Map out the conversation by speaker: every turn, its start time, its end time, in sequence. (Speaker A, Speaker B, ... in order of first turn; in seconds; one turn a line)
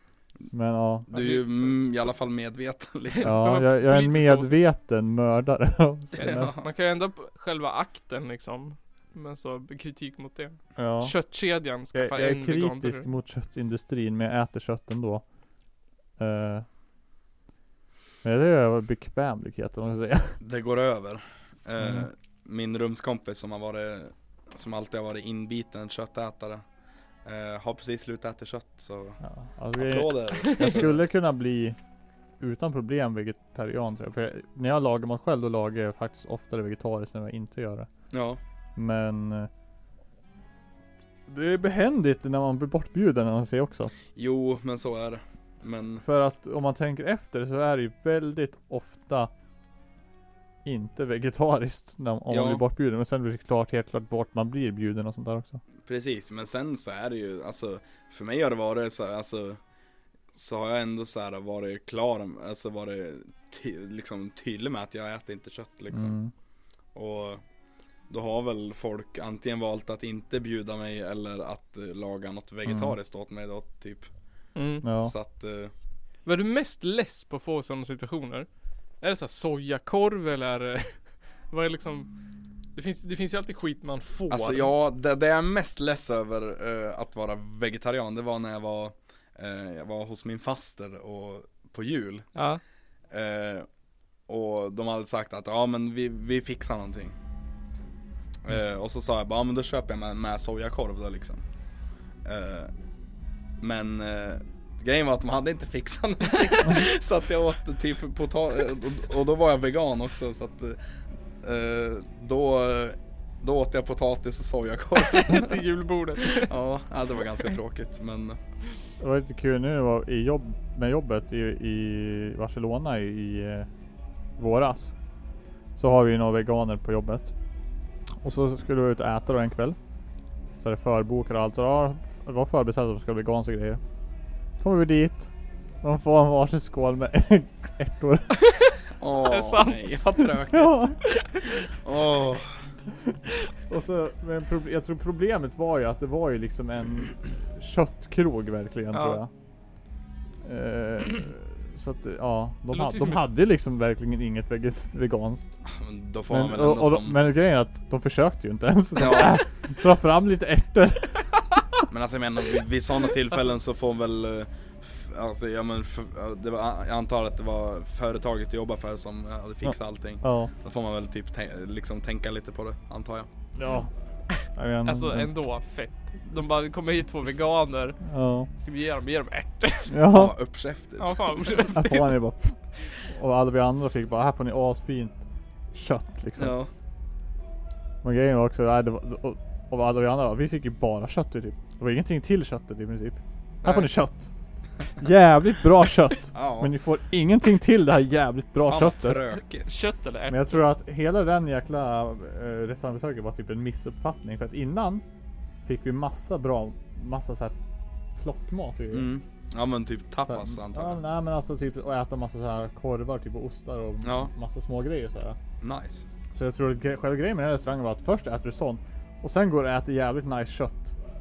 Speaker A: 0.5-1.1
Speaker B: 1.1-3.4
Speaker C: 1.1-1.8
Speaker C: 3.1-4.5
Speaker A: 3.2-6.5
Speaker C: 6.2-13.1
Speaker B: 6.2-6.7
Speaker A: 10.8-11.2
Speaker A: 11.9-15.2
Speaker A: 16.2-16.7
Speaker A: 18.2-20.4
Speaker B: 20.4-26.6
Speaker A: 21.8-22.1
Speaker B: 27.2-29.2
Speaker A: 29.2-31.8
Speaker B: 29.7-31.1
Speaker C: 30.4-30.7
Speaker A: 32.4-37.9
Speaker B: 38.1-38.4
Speaker A: 38.8-39.5
Speaker A: 41.3-43.9
Speaker B: 44.1-46.0
Speaker A: 46.0-49.3
Speaker A: 50.6-55.6
Speaker B: 52.3-52.6
Speaker B: 55.8-59.6
Speaker B: 60.3-66.2
Speaker A: 65.9-66.3
Speaker B: 66.9-67.4
Speaker B: 68.1-74.1
Speaker A: 72.7-73.0
Speaker C: 74.5-74.8
Speaker A: 74.8-75.1
Speaker B: 75.0-75.7
Speaker C: 76.2-78.5
Speaker C: 79.0-82.1
Speaker C: 82.7-84.7
Speaker B: 84.3-92.3
Speaker C: 92.3-92.6
Speaker B: 93.1-93.7
Speaker B: 94.3-97.2
Speaker B: 98.4-101.4
Speaker B: 102.2-102.7
Speaker B: 103.6-110.8
Speaker B: 111.4-115.6
Speaker C: 115.2-116.5
Speaker B: 116.2-118.4
Speaker A: 119.0-123.7
Speaker A: 124.4-124.9
Speaker A: 125.8-127.3
Speaker A: 128.2-129.8
Speaker A: 130.6-133.8
Speaker A: 134.6-135.3
Speaker A: 135.8-138.4
Speaker C: 138.4-139.9
Speaker B: 139.0-141.0
Speaker A: 140.5-140.9
Speaker C: 141.0-141.7
Speaker B: 141.7-142.6
Speaker A: 143.0-149.3
Speaker C: 148.9-149.2
Speaker A: 150.4-155.5
Speaker C: 152.7-153.3
Speaker B: 155.7-157.2
Speaker A: 156.3-161.8
Speaker B: 159.0-159.4
Speaker B: 161.9-173.3
Speaker A: 169.6-170.5
Speaker A: 173.6-173.9
Speaker A: 174.6-175.3
Speaker C: 174.8-178.0
Speaker A: 178.0-178.5
Speaker C: 178.6-180.0
Speaker A: 179.9-180.3
Speaker B: 180.1-181.9
Speaker C: 181.0-182.1
Speaker A: 181.8-185.2
Speaker A: 185.7-186.6
Speaker B: 186.4-186.7
Speaker A: 188.0-194.3
Speaker C: 193.6-193.9
Speaker A: 194.9-199.3
Speaker B: 196.3-196.7
Speaker B: 198.6-199.8
Speaker C: 199.7-200.7
Speaker A: 200.3-205.0
Speaker A: 205.7-207.6
Speaker A: 208.2-209.1
Speaker B: 208.9-211.0
Speaker A: 210.3-215.4
Speaker B: 214.0-214.3
Speaker B: 215.6-216.1
Speaker A: 216.3-220.9